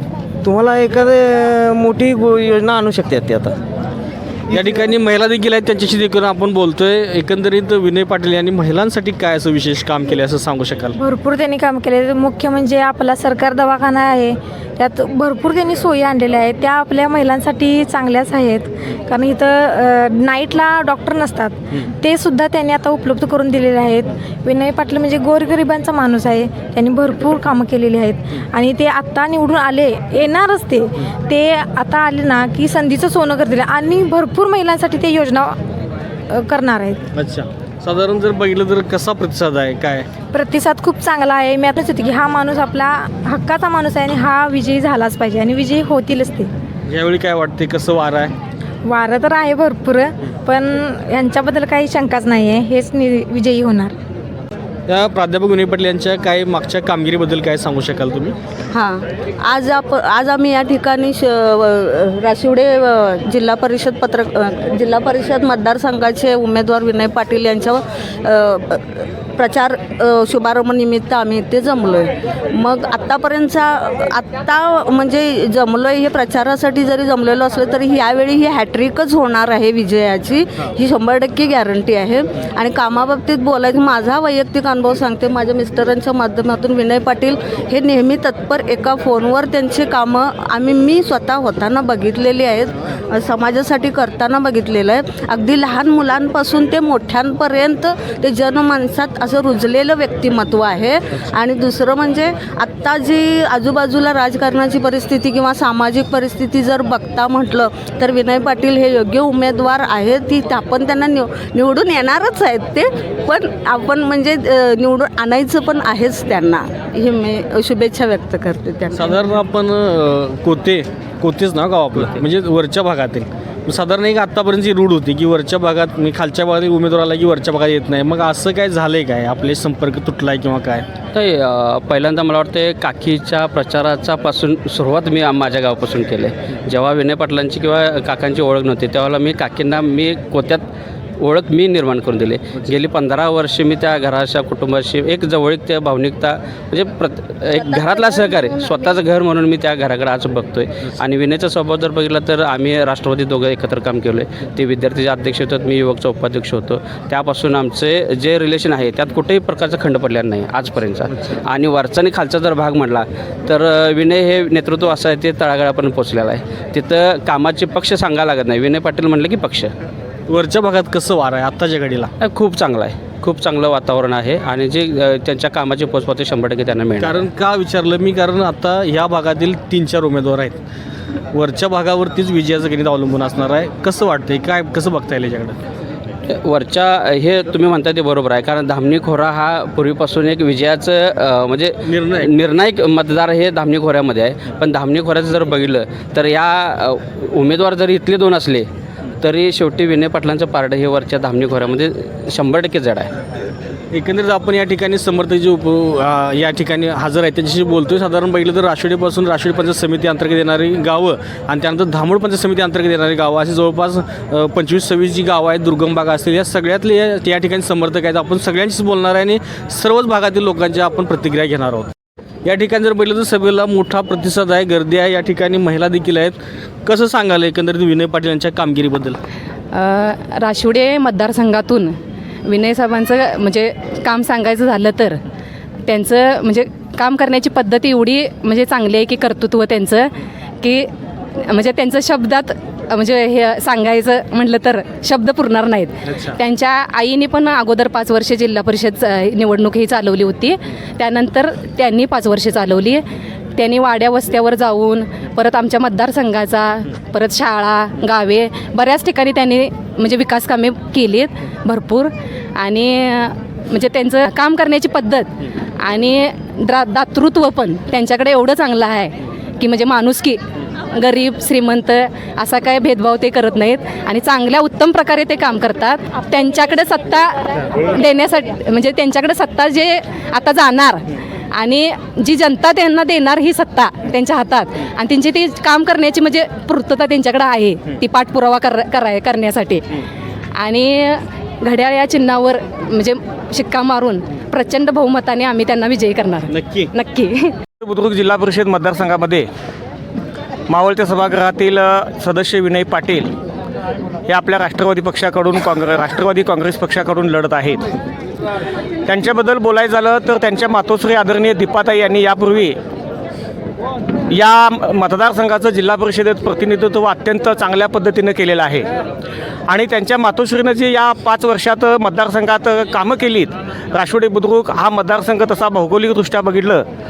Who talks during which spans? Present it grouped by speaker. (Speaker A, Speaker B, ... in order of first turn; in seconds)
Speaker A: 0.4-3.5
Speaker B: 4.5-10.9, 37.1-40.1, 46.9-48.3, 54.9-58.4, 119.0-130.9, 170.3-172.1, 177.0-180.6, 181.3-185.6, 191.8-192.2, 203.9-221.9, 222.4-229.2
Speaker C: 10.9-35.5, 36.3-37.0, 40.3-46.5, 48.8-53.9
Speaker D: 58.7-119.3, 147.6-149.0
Speaker E: 122.0-122.2, 131.1-140.6, 141.2-169.7, 172.2-177.3, 186.3-198.7, 199.2-203.1
Speaker F: 229.7-231.9, 232.5-235.2, 235.9-240.1, 240.6-240.9, 241.4-253.0, 253.6-265.3, 265.8-270.4, 270.9-290.0, 290.6-297.5
Speaker G: 297.8-299.4, 300.7-303.3, 304.3-307.8, 309.1-312.7, 314.3-318.9, 319.7-326.8